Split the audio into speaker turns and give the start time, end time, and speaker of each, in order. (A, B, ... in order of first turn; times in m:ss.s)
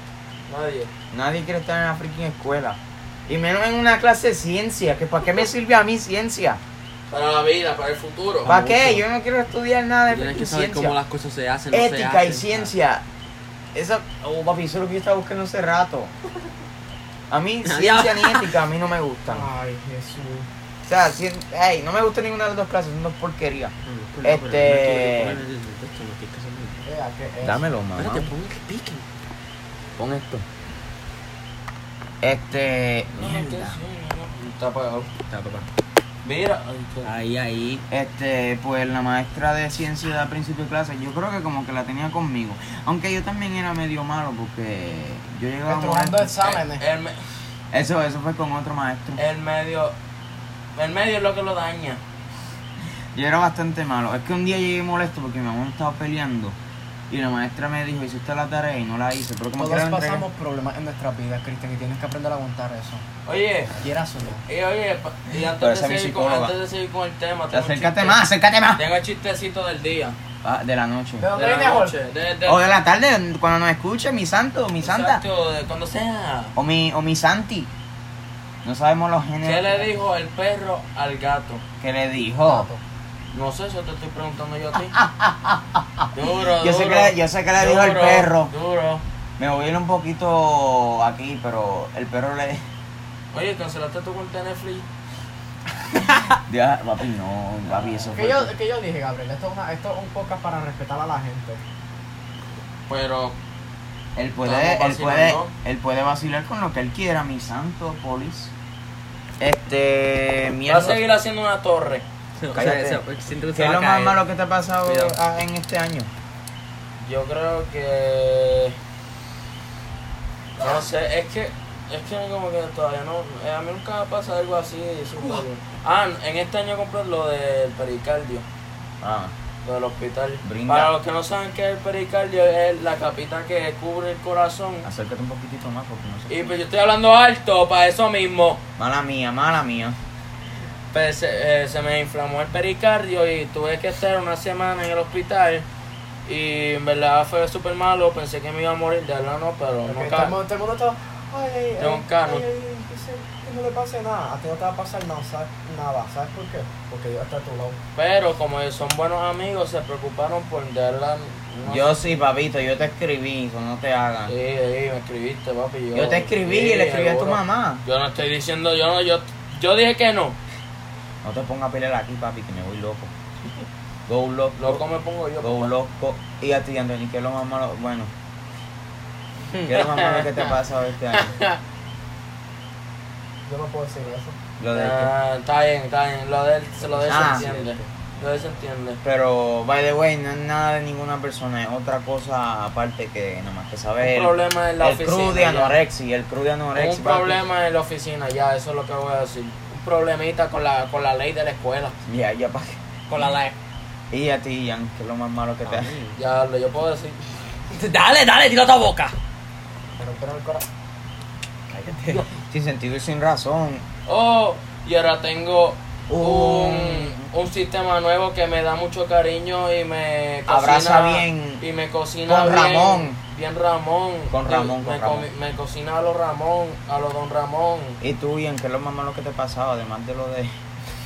0:00.5-0:00.9 A
0:01.1-0:06.6 B
0:07.1-0:08.5 A
0:08.4-0:09.0 C
0:08.5-0:11.0 B
0:10.1-0:12.7 C
0:11.7-0:13.0 B
0:13.7-0:16.1 B
0:17.3-0:19.5 B
0:17.6-0:18.5 C
0:19.3-0:20.5 D
0:20.8-0:25.4 B
0:23.9-0:26.8 C
0:26.8-0:27.6 D
0:27.4-0:28.3 B
0:28.0-0:29.0 C
0:30.0-0:30.4 B
0:32.2-0:33.8 B
0:33.2-0:35.1 A
0:35.3-0:35.7 C
0:36.2-0:37.1 A
0:37.0-0:37.8 C
0:37.9-0:46.4 B
0:45.7-0:46.8 D
0:46.4-0:47.2 A
0:47.7-0:49.2 B
0:49.2-0:49.9 A
0:50.8-0:52.0 A
0:53.1-0:56.6 B
0:57.1-1:00.2 B
0:59.6-1:03.0 D
1:03.3-1:03.7 A
1:03.8-1:04.4 D
1:04.5-1:08.2 A
1:05.5-1:06.6 B
1:07.5-1:08.8 B
1:08.7-1:10.2 A
1:10.4-1:11.3 B
1:11.2-1:12.0 D
1:11.4-1:12.7 A
1:12.5-1:15.2 B
1:14.8-1:16.6 A
1:16.6-1:17.7 B
1:18.6-1:19.9 B
1:19.4-1:21.6 A
1:21.8-1:22.7 B
1:22.4-1:22.8 D
1:23.3-1:25.0 A
1:24.9-1:28.5 B
1:26.1-1:29.0 A
1:29.4-1:32.6 B
1:33.3-1:34.9 A
1:36.4-1:38.5 B
1:38.1-1:41.6 D
1:42.9-1:43.4 A
1:44.2-1:48.5 B
1:44.4-1:45.5 A
1:49.4-1:51.0 B
1:50.7-1:52.0 A
1:52.4-1:54.2 C
1:52.5-1:53.0 B
1:53.5-1:56.1 B
1:54.8-1:55.2 C
1:57.0-1:58.8 A
2:00.6-2:08.4 A
2:09.0-2:09.3 B
2:09.6-2:14.9 A
2:10.4-2:10.9 B
2:14.8-2:16.5 B
2:16.3-2:18.6 A
2:18.8-2:20.0 B
2:20.9-2:25.7 A
2:26.3-2:30.4 A
2:29.9-2:37.8 D
2:31.8-2:32.4 A
2:38.0-2:42.2 A
2:41.6-2:44.3 B
2:44.3-2:50.4 A
2:45.9-2:47.8 B
2:51.2-2:53.1 B
2:54.1-2:54.8 B
2:54.6-2:55.7 A
2:55.4-2:58.1 B
2:59.6-3:00.5 A
2:59.7-3:01.4 B
3:01.1-3:01.6 A
3:03.5-3:04.4 D
3:04.6-3:05.1 B
3:04.7-3:09.0 A
3:06.8-3:07.9 D
3:07.1-3:07.5 B
3:09.0-3:17.4 B
3:14.0-3:15.8 A
3:16.8-3:22.0 A
3:22.1-3:22.8 B
3:23.1-3:23.6 C
3:24.1-3:25.9 B
3:25.6-3:26.2 C
3:26.2-3:27.2 A
3:27.7-3:29.2 C
3:30.0-3:30.6 D
3:31.7-3:32.2 C
3:32.3-3:33.9 B
3:34.1-3:48.0 A
3:36.1-3:37.3 B
3:40.5-3:41.6 B
3:42.3-3:43.2 B
3:44.3-3:45.3 B
3:48.0-3:50.5 B